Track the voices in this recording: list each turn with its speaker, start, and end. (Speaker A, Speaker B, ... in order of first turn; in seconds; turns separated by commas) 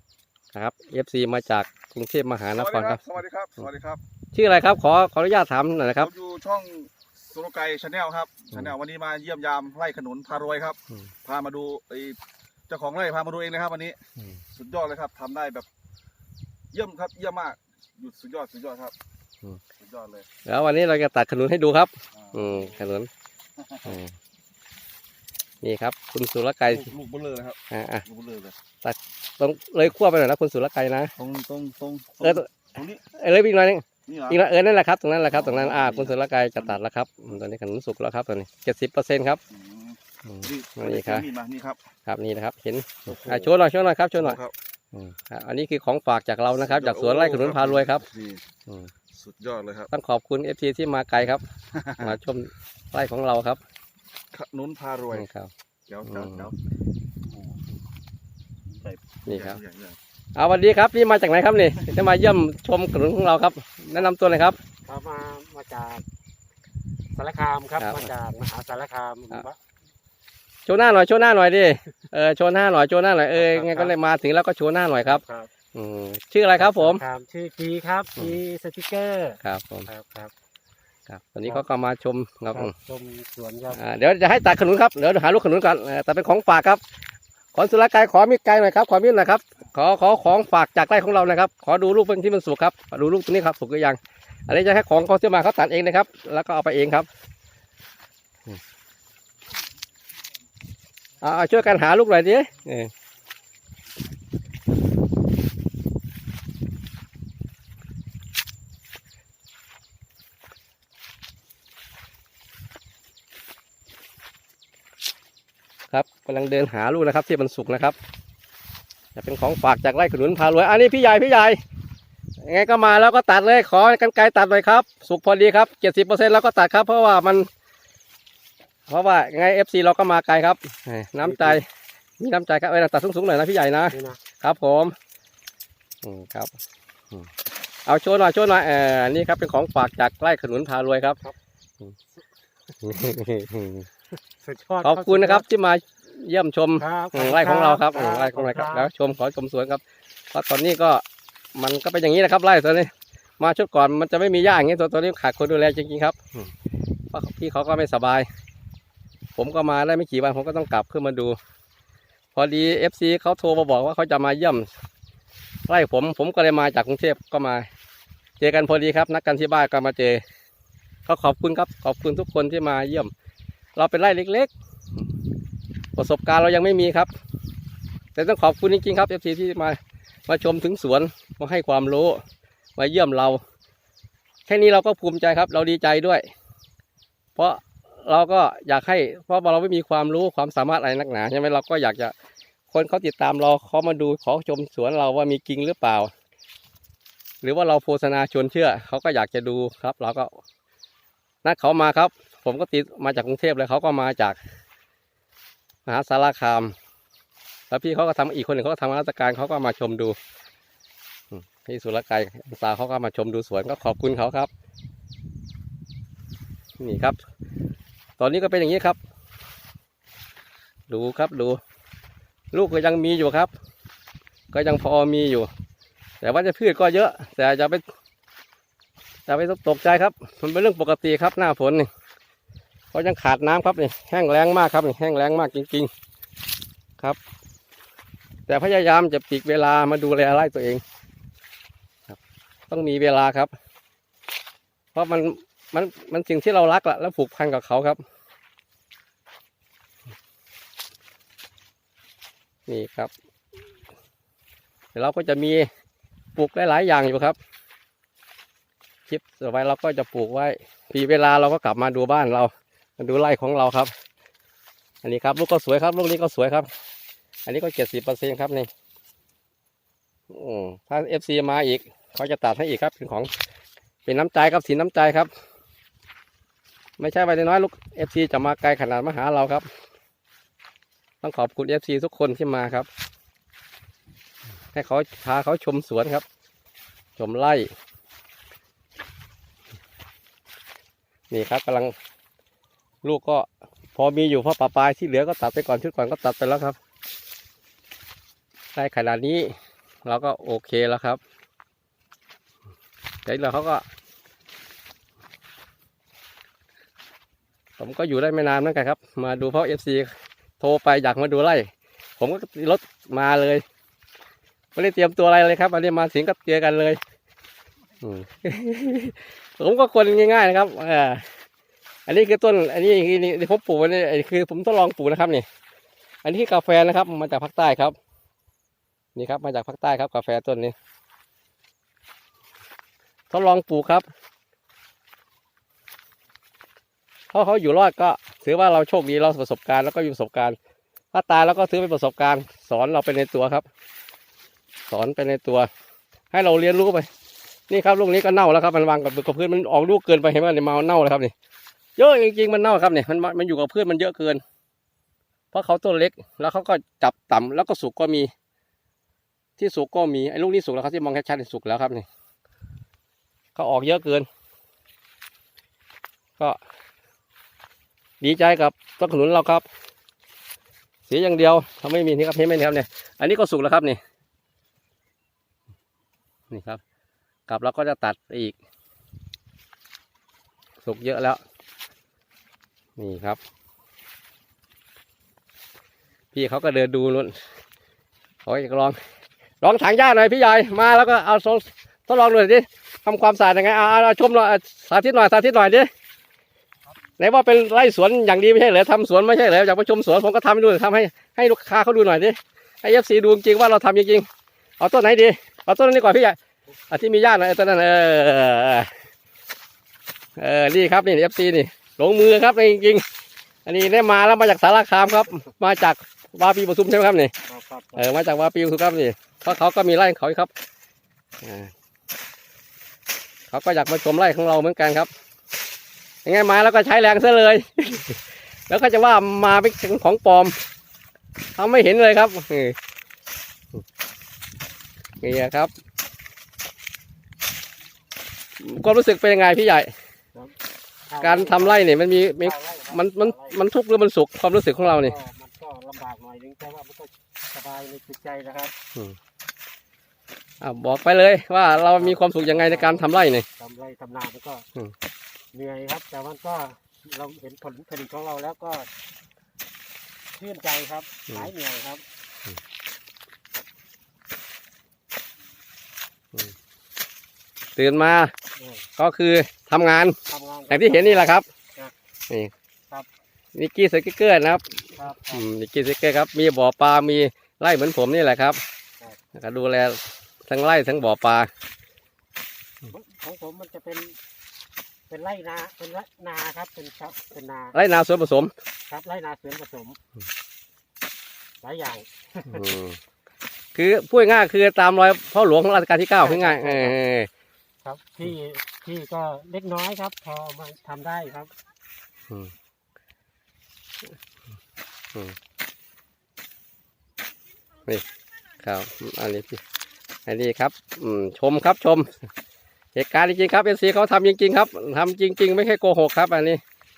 Speaker A: 0.5-3.0, Speaker B: 2.6-4.0, Speaker A: 4.3-6.1, Speaker B: 6.0-15.7, Speaker B: 16.7-19.0, Speaker B: 19.8-20.3, Speaker A: 20.4-23.1, Speaker B: 22.2-22.6, Speaker A: 23.9-24.1, Speaker A: 25.6-26.9, Speaker B: 26.7-28.6, Speaker A: 27.7-28.1, Speaker A: 28.8-31.1, Speaker B: 31.2-33.0, Speaker A: 32.2-39.4, Speaker B: 34.1-34.4, Speaker B: 35.3-36.1, Speaker B: 39.5-41.8, Speaker A: 40.2-41.3, Speaker A: 42.1-44.4, Speaker B: 43.1-43.5, Speaker B: 44.2-44.5, Speaker A: 44.9-48.1, Speaker B: 46.6-48.4, Speaker A: 48.7-48.9, Speaker B: 49.1-49.9, Speaker A: 49.9-53.6, Speaker B: 54.3-55.3, Speaker A: 55.1-55.5, Speaker B: 55.9-56.5, Speaker A: 56.1-56.5, Speaker B: 58.7-60.0, Speaker A: 59.3-59.6, Speaker A: 60.4-64.6, Speaker C: 64.9-66.0, Speaker C: 67.1-69.6, Speaker A: 67.8-68.1, Speaker A: 70.7-75.2, Speaker C: 73.4-73.9, Speaker C: 75.0-75.5, Speaker A: 75.7-77.0, Speaker C: 76.6-80.3, Speaker A: 79.4-79.9, Speaker A: 81.1-82.7, Speaker C: 82.5-83.8, Speaker A: 83.7-86.8, Speaker A: 87.5-97.1, Speaker A: 101.2-102.9, Speaker A: 115.9-118.0, Speaker A: 119.2-121.6, Speaker A: 122.4-127.5, Speaker A: 128.9-131.7, Speaker C: 131.2-131.6, Speaker A: 132.2-134.9, Speaker C: 133.9-134.2, Speaker A: 136.0-136.5, Speaker A: 137.9-141.2, Speaker A: 142.8-143.9, Speaker C: 144.4-145.4, Speaker A: 144.8-151.0, Speaker C: 146.8-148.9, Speaker A: 151.6-156.5, Speaker A: 157.1-158.3, Speaker A: 159.4-161.4, Speaker A: 162.3-164.7, Speaker A: 165.7-167.7, Speaker A: 168.4-170.2, Speaker A: 171.1-173.1, Speaker A: 173.8-174.5, Speaker A: 175.9-177.1, Speaker A: 178.2-182.2, Speaker A: 182.8-183.4, Speaker A: 184.5-186.3, Speaker A: 187.4-192.1, Speaker A: 192.7-196.1, Speaker A: 197.4-200.4, Speaker A: 201.4-204.4, Speaker A: 205.9-206.7, Speaker A: 207.7-210.2, Speaker A: 211.3-214.5, Speaker A: 216.8-217.2, Speaker A: 218.2-219.0, Speaker A: 220.9-221.6, Speaker A: 222.5-223.5, Speaker A: 224.5-225.5, Speaker A: 226.2-227.8, Speaker A: 229.3-231.9, Speaker A: 232.9-235.9, Speaker A: 238.5-240.8, Speaker A: 242.7-243.5, Speaker A: 244.9-248.0, Speaker A: 252.7-253.1, Speaker A: 254.9-255.7, Speaker A: 256.4-257.4, Speaker A: 259.1-263.9, Speaker A: 265.0-266.7, Speaker A: 267.5-268.7, Speaker A: 270.3-273.3, Speaker A: 274.1-275.3, Speaker A: 277.0-279.7, Speaker A: 281.2-282.9, Speaker A: 284.7-286.2, Speaker A: 287.2-287.7, Speaker A: 291.3-291.9, Speaker A: 293.0-296.8, Speaker A: 298.8-301.2, Speaker A: 303.3-303.9, Speaker A: 307.8-313.6, Speaker A: 314.8-317.0, Speaker A: 318.0-321.2, Speaker A: 322.1-325.5, Speaker A: 326.2-328.0, Speaker A: 329.2-330.8, Speaker A: 333.3-334.1, Speaker A: 337.3-340.6, Speaker A: 341.1-343.7, Speaker A: 344.9-345.7, Speaker A: 346.3-347.1, Speaker A: 347.7-351.3, Speaker A: 352.0-354.4, Speaker A: 355.5-358.3, Speaker A: 359.6-362.1, Speaker A: 363.6-364.3, Speaker A: 368.2-369.7, Speaker A: 371.1-374.0, Speaker A: 376.5-376.8, Speaker A: 377.5-378.6, Speaker A: 380.8-381.4, Speaker A: 383.0-383.4, Speaker A: 386.3-387.4, Speaker A: 388.4-389.0, Speaker A: 389.6-395.9, Speaker A: 397.2-404.3, Speaker A: 404.8-406.4, Speaker A: 406.9-408.9, Speaker A: 410.4-413.0, Speaker A: 413.7-417.3, Speaker C: 417.5-418.1, Speaker A: 418.0-420.5, Speaker A: 421.4-421.7, Speaker A: 423.5-425.1, Speaker A: 426.2-430.6, Speaker A: 431.6-432.8, Speaker A: 435.2-435.7, Speaker A: 438.6-439.9, Speaker C: 441.1-443.6, Speaker A: 441.2-445.2, Speaker C: 444.8-448.7, Speaker A: 450.6-453.5, Speaker C: 451.9-454.7, Speaker C: 455.5-458.9, Speaker C: 460.3-462.0, Speaker A: 467.8-468.3, Speaker C: 468.6-468.9, Speaker A: 469.0-470.2, Speaker C: 470.3-471.9, Speaker A: 470.7-471.5, Speaker A: 473.6-478.6, Speaker C: 475.0-475.5, Speaker A: 479.4-481.5, Speaker C: 482.8-484.2, Speaker C: 485.1-487.8, Speaker A: 487.7-488.5, Speaker C: 488.9-490.0, Speaker C: 491.6-492.7, Speaker A: 492.5-493.0, Speaker A: 493.7-497.3, Speaker C: 496.2-497.0, Speaker C: 497.8-501.5, Speaker A: 508.6-509.6, Speaker A: 510.3-512.1, Speaker A: 513.0-516.6